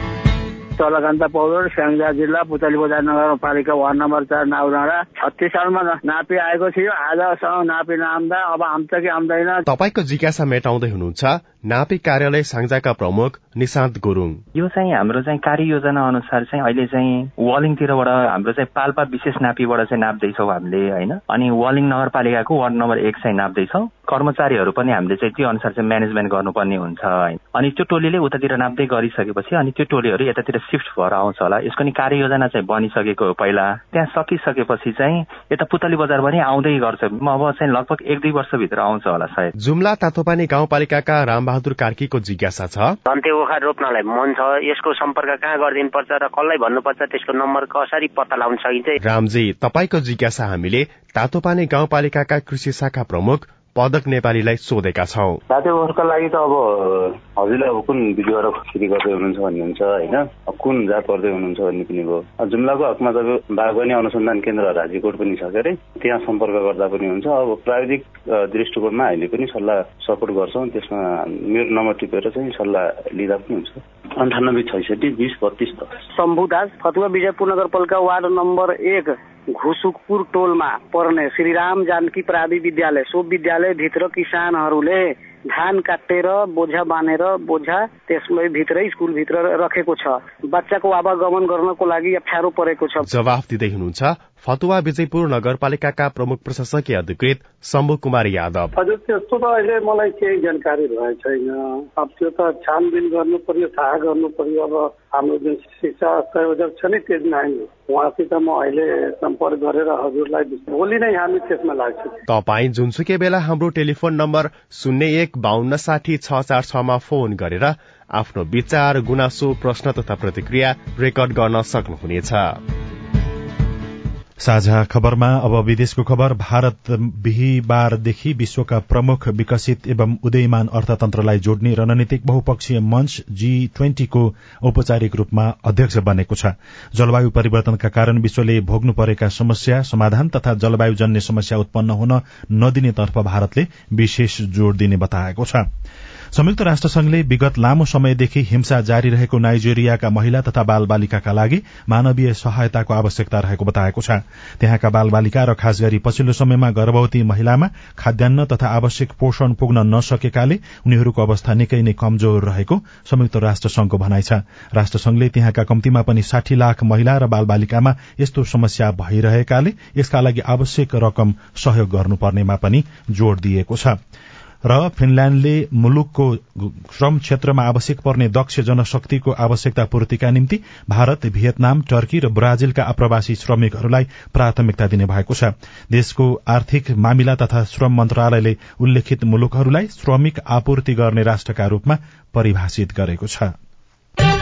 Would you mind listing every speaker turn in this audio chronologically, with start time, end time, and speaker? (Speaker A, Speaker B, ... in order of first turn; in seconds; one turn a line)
Speaker A: 0.8-9.6
Speaker B: 9.7-14.4
Speaker C: 14.6-39.5
Speaker B: 39.6-43.0
Speaker D: 43.1-49.0
Speaker B: 49.0-55.4
Speaker E: 55.5-76.0
Speaker A: 76.1-93.0
Speaker B: 93.0-98.7
Speaker F: 98.8-112.2
Speaker B: 112.3-122.6
Speaker G: 124.4-145.7
Speaker G: 146.3-174.0
Speaker G: 174.7-193.5